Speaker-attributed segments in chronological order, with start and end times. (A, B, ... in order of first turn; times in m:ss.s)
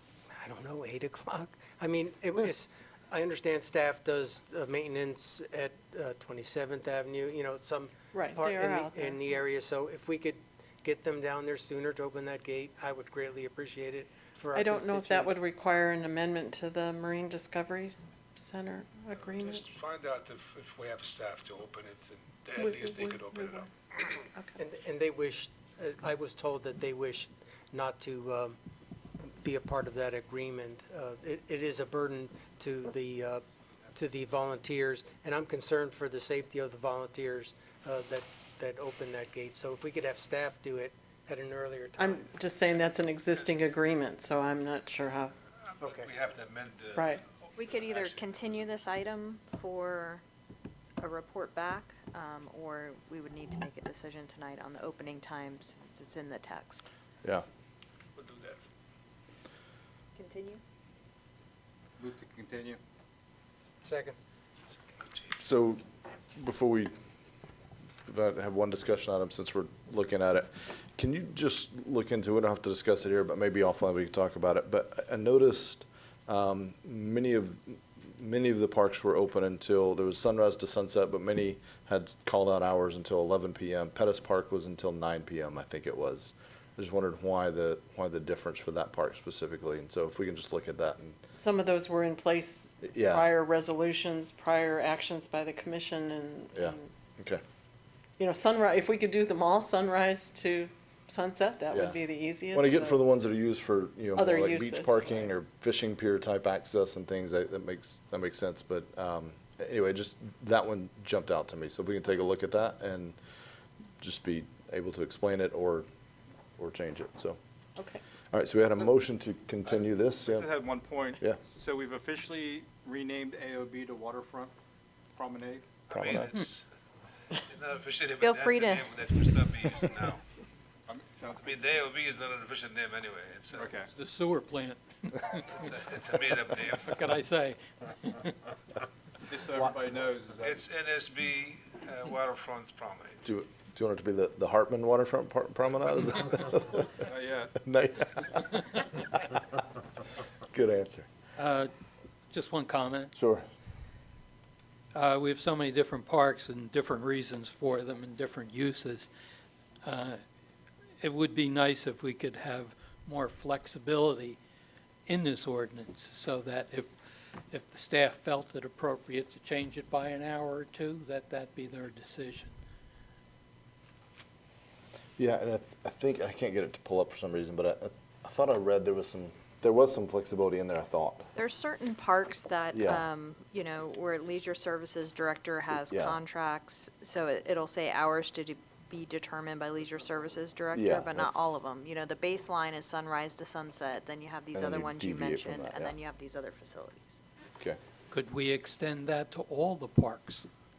0:00.3-0:15.4 A
0:08.1-0:09.2 B
0:14.5-0:19.6 B
0:19.2-0:24.1 C
0:22.6-0:23.7 B
0:24.6-0:28.6 A
0:29.4-0:42.3 A
0:42.0-0:45.3 B
0:45.7-0:48.6 C
0:45.8-0:46.1 A
0:47.0-0:47.2 B
0:47.6-0:50.2 D
0:51.0-0:56.9 D
0:58.2-0:58.6 C
1:00.2-1:00.6 D
1:02.0-1:02.8 E
1:03.8-1:04.2 A
1:05.4-1:05.8 F
1:06.4-1:06.9 F
1:08.1-1:31.2 F
1:31.4-1:36.9 B
1:32.8-1:33.3 F
1:36.6-1:37.4 F
1:38.2-1:43.0 B
1:41.7-1:53.2 F
1:44.2-1:45.3 B
1:54.0-1:55.9 F
1:56.6-1:57.4 F
1:58.3-2:00.5 F
1:59.7-2:04.5 E
2:05.2-2:05.9 E
2:05.9-2:06.6 C
2:05.9-2:06.3 F
2:07.3-2:10.2 C
2:08.2-2:09.0 D
2:10.9-2:11.8 E
2:11.4-2:13.8 C
2:13.5-2:13.9 E
2:13.9-2:15.6 G
2:15.4-2:16.9 C
2:16.4-2:18.4 G
2:19.2-2:20.7 E
2:20.4-2:23.2 C
2:23.2-2:26.9 F
2:27.0-2:27.6 E
2:27.6-2:28.4 F
2:30.5-2:31.1 F
2:31.4-2:31.7 G
2:32.3-2:33.1 G
2:33.2-2:33.5 F
2:34.9-2:39.1 G
2:39.8-2:40.2 G
2:41.0-2:44.4 G
2:45.1-2:46.9 G
2:47.5-2:52.5 G
2:55.2-3:01.3 F
3:01.4-3:17.2 D
3:02.7-3:03.0 F
3:05.9-3:06.2 F
3:10.7-3:11.6 F
3:14.5-3:16.0 F
3:18.1-3:20.5 G